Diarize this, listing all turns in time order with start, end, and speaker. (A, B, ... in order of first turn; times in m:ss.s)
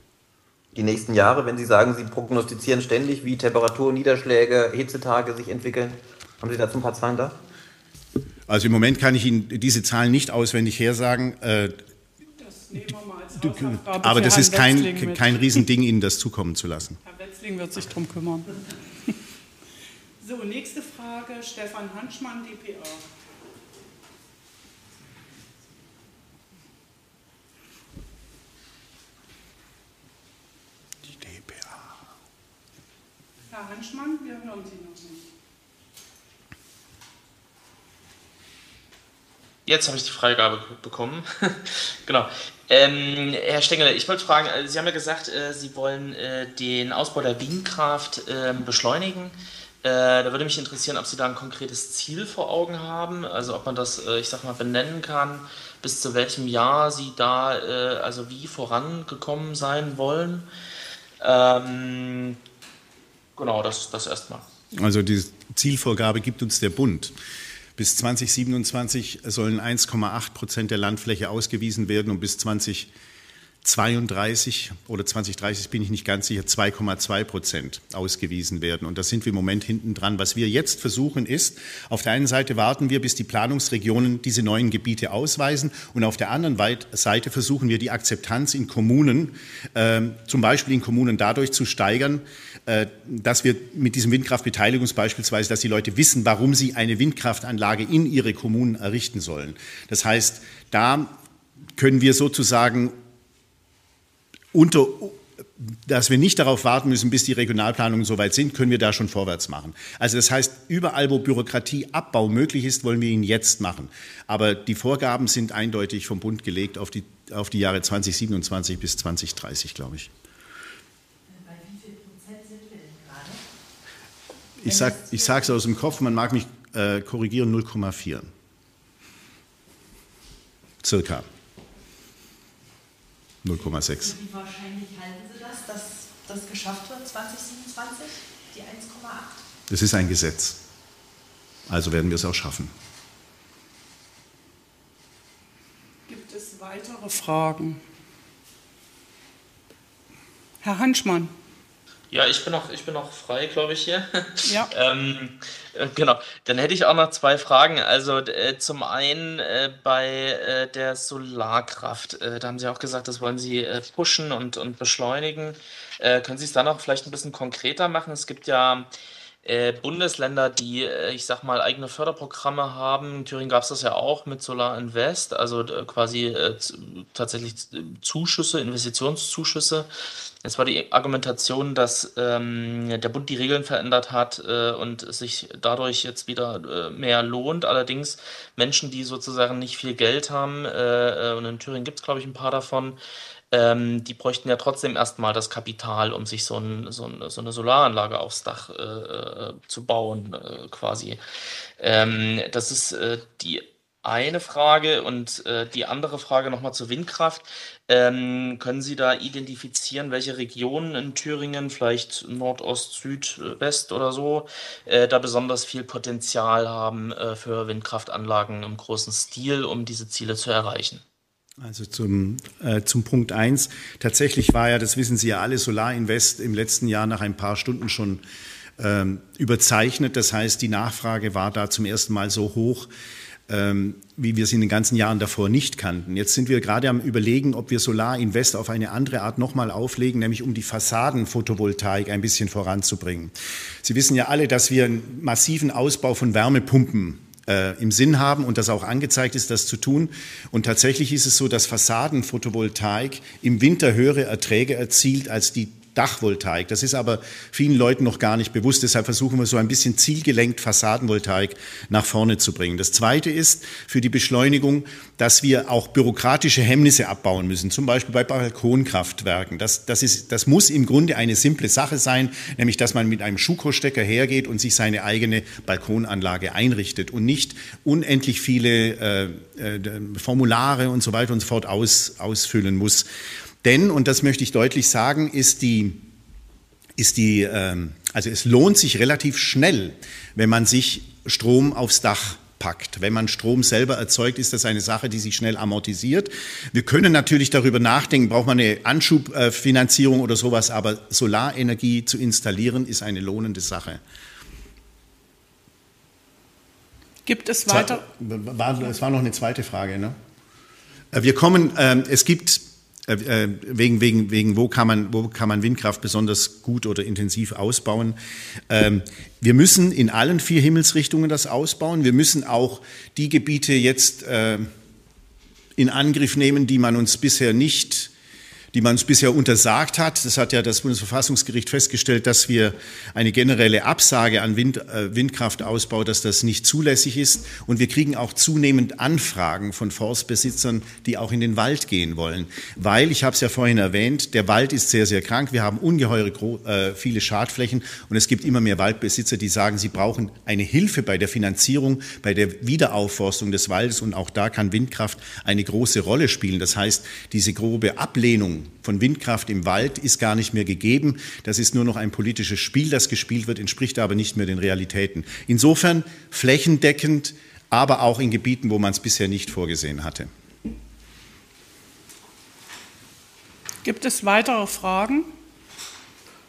0:00.7-0:07.4 A
0:08.5-0:11.7 B
0:12.4-0:15.4 C
0:13.4-0:17.0 B
0:17.0-0:18.5 C
0:20.2-0:23.0 C
0:31.1-0:31.8 B
0:33.5-0:35.2 C
0:39.6-1:00.4 D
1:01.2-1:02.4 D
1:03.4-1:04.4 D
1:04.7-1:07.1 B
1:07.8-1:12.9 B
1:13.6-1:41.1 B
1:41.8-1:42.9 B
1:44.5-2:00.1 B
2:01.3-2:03.4 E
2:04.6-2:08.3 B
2:04.6-2:05.6 E
2:10.8-2:11.3 B
2:13.4-2:14.2 B
2:13.8-2:19.4 E
2:19.7-2:20.6 B
2:21.7-2:22.7 B
2:26.1-2:27.8 C
2:30.6-2:31.3 C
2:32.1-2:48.9 D
2:49.4-2:59.9 D
3:00.4-3:13.0 D
3:13.5-3:21.2 D
3:21.8-3:41.0 D
3:41.6-3:48.2 B
3:48.8-3:52.9 B
3:53.5-4:43.1 B
4:43.6-4:46.1 B
4:47.0-5:04.0 B
5:07.2-5:08.0 C
5:07.7-5:10.1 B
5:11.1-5:18.2 B
5:18.7-5:24.7 B
5:25.8-5:28.1 B
5:28.7-6:10.3 B
6:13.8-6:15.3 C